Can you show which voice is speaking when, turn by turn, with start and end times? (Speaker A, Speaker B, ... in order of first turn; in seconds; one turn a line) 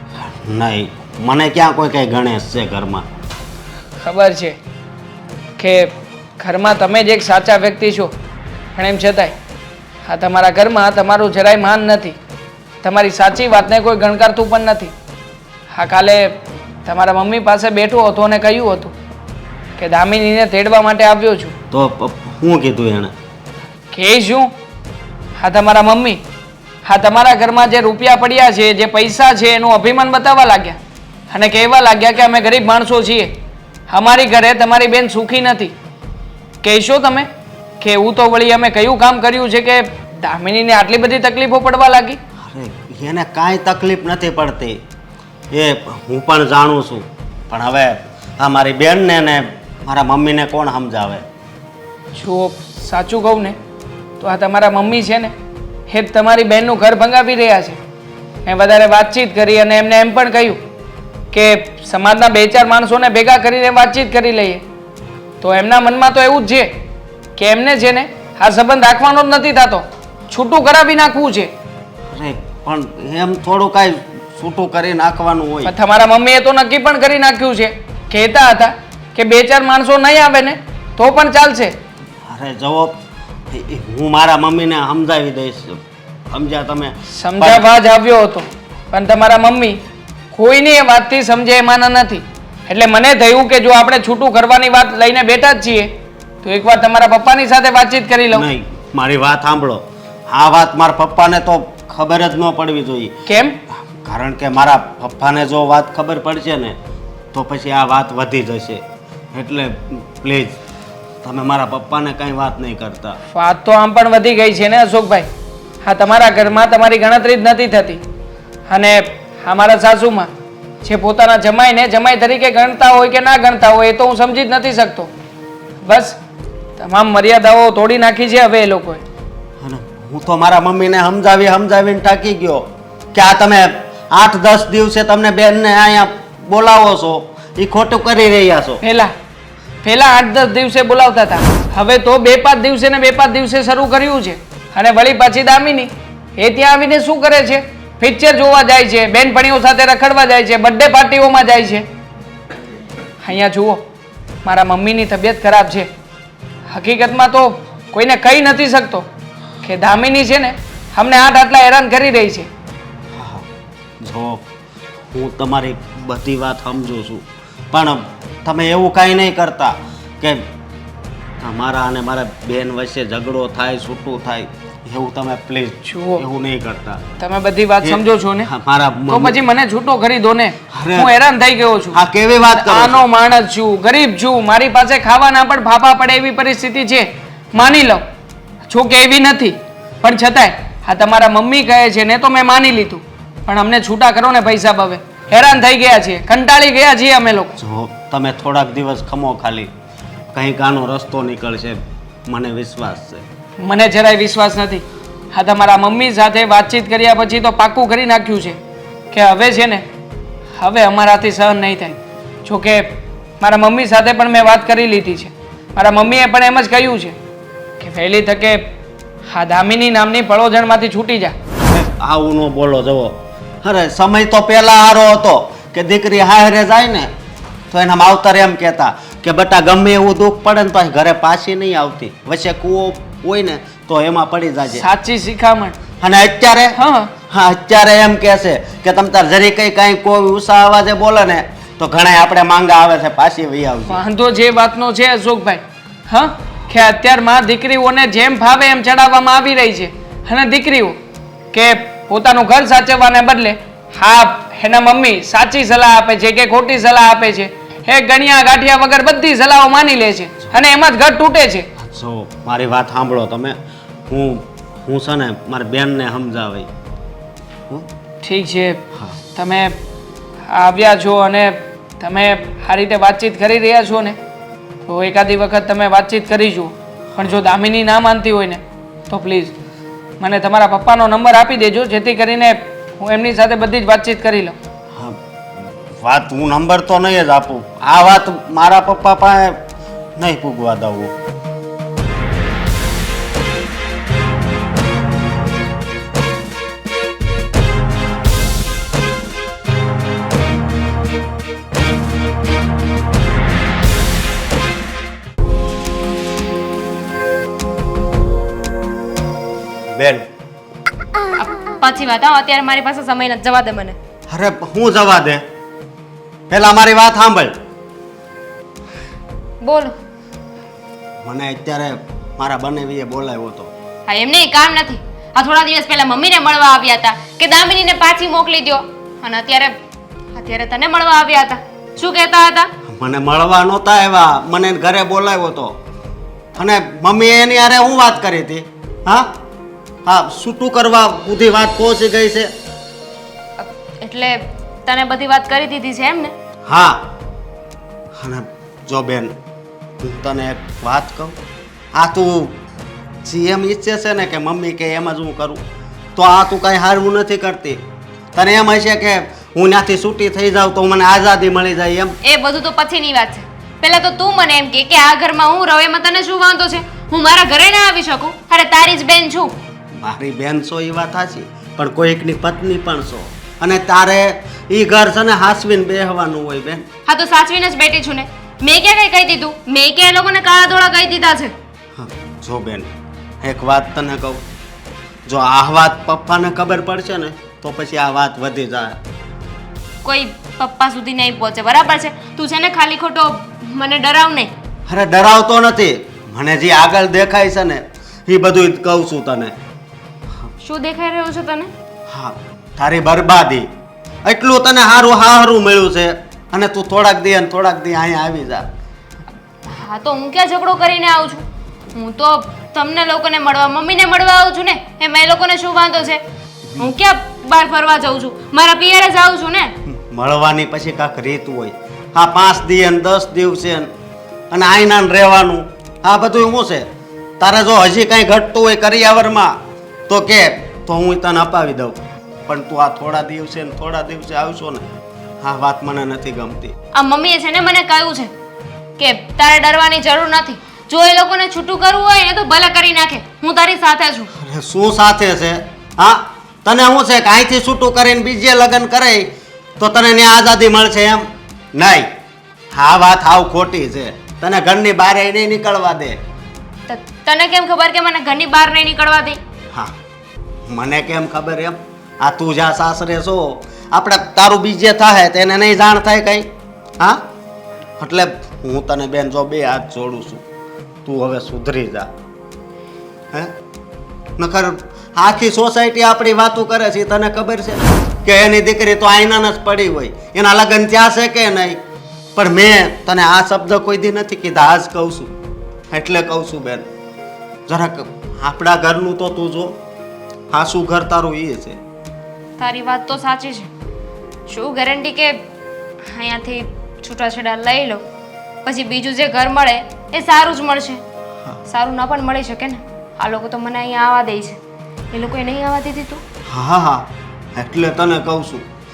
Speaker A: 0.2-3.0
Speaker B: 4.0-4.6
Speaker B: 5.6-8.1
Speaker B: 8.8-9.3
Speaker B: 10.0-12.2
Speaker B: 12.8-14.9
Speaker B: 15.7-18.9
Speaker B: 19.8-21.5
Speaker A: 21.7-23.1
Speaker B: 23.9-24.5
Speaker B: 25.4-26.2
Speaker B: 26.8-30.8
Speaker B: 31.3-33.3
Speaker B: 33.9-35.7
Speaker B: 36.6-37.3
Speaker B: 37.8-42.2
Speaker A: 42.4-44.8
Speaker A: 45.5-51.2
Speaker B: 52.1-53.6
Speaker B: 54.2-55.3
Speaker B: 55.9-57.8
Speaker B: 58.4-60.6
Speaker B: 61.3-64.6
Speaker B: 65.4-66.7
Speaker B: 67.3-71.5
Speaker A: 72.1-75.7
Speaker B: 75.6-81.7
Speaker A: 82.2-87.7
Speaker B: 87.1-89.8
Speaker B: 90.3-95.9
Speaker B: 96.4-98.5
Speaker A: 98.3-103.1
Speaker B: 103.3-103.6
Speaker A: 104.0-106.8
Speaker A: 107.3-110.6
Speaker A: 111.2-113.2
Speaker B: 113.3-115.3
Speaker B: 115.8-118.0
Speaker B: 118.7-120.3
Speaker B: 120.8-125.1
Speaker B: 125.8-126.2
Speaker B: 126.8-129.0
Speaker A: 129.6-138.8
Speaker B: 138.8-139.1
Speaker B: 139.8-151.8
Speaker B: 153.2-153.8
Speaker B: 154.4-155.9
Speaker B: 156.7-159.1
Speaker B: 159.6-162.5
Speaker A: 163.1-163.5
Speaker A: 164.0-164.4
Speaker A: 165.1-170.5
Speaker A: 171.4-177.0
Speaker B: 175.8-176.2
Speaker B: 177.2-178.5
Speaker A: 177.8-179.4
Speaker B: 179.1-182.0
Speaker A: 180.7-181.1
Speaker A: 181.9-183.0
Speaker B: 182.5-188.0
Speaker B: 188.7-197.6
Speaker A: 197.6-199.7
Speaker A: 200.3-203.2
Speaker B: 203.6-208.6
Speaker B: 209.1-209.8
Speaker B: 210.6-217.2
Speaker B: 217.8-218.7
Speaker B: 219.3-221.3
Speaker A: 221.6-227.1
Speaker A: 227.7-234.8
Speaker B: 234.7-235.8
Speaker A: 236.0-236.8
Speaker B: 236.7-237.1
Speaker A: 237.3-244.0
Speaker B: 243.9-251.0
Speaker B: 251.5-261.7
Speaker A: 261.8-263.6
Speaker A: 264.1-266.7
Speaker B: 268.2-268.8
Speaker B: 269.3-269.8
Speaker B: 270.5-274.2
Speaker B: 274.9-279.5
Speaker B: 280.2-284.5
Speaker A: 284.9-289.6
Speaker A: 290.2-291.1
Speaker A: 309.9-310.3
Speaker C: 311.4-314.0
Speaker A: 314.3-315.4
Speaker A: 316.5-317.5
Speaker C: 319.6-319.9
Speaker A: 321.2-323.7
Speaker C: 324.1-329.8
Speaker C: 330.3-332.7
Speaker A: 332.9-335.8
Speaker A: 336.5-339.3
Speaker A: 340.0-342.5
Speaker C: 343.6-346.3
Speaker A: 346.6-347.1
Speaker A: 348.1-349.3
Speaker A: 350.0-351.4
Speaker A: 351.9-352.6
Speaker A: 353.2-355.6
Speaker A: 356.1-357.8
Speaker A: 358.3-362.1
Speaker C: 362.2-369.6
Speaker A: 369.9-376.9
Speaker C: 377.1-381.5
Speaker A: 381.9-382.9
Speaker A: 383.4-384.4
Speaker A: 385.2-389.0
Speaker C: 390.0-394.5
Speaker A: 394.9-399.5
Speaker C: 400.6-401.7
Speaker A: 402.1-403.7
Speaker A: 404.2-408.7
Speaker C: 409.6-416.2
Speaker C: 416.8-419.7
Speaker A: 419.9-423.9
Speaker A: 424.5-426.9
Speaker A: 427.4-434.9
Speaker A: 435.4-436.7
Speaker C: 436.9-438.3
Speaker C: 439.0-444.3
Speaker A: 444.4-452.1
Speaker A: 452.7-456.2
Speaker C: 456.9-459.4
Speaker A: 460.7-466.5
Speaker A: 467.0-467.3
Speaker A: 468.0-470.4
Speaker A: 471.0-472.1
Speaker A: 474.4-481.8
Speaker A: 482.3-485.3
Speaker A: 485.9-486.9
Speaker A: 487.7-489.8
Speaker A: 490.5-491.8
Speaker C: 492.6-493.7
Speaker C: 494.5-495.4
Speaker C: 496.0-498.0
Speaker C: 498.6-501.0
Speaker C: 501.6-504.6
Speaker C: 505.1-506.2
Speaker A: 506.5-508.7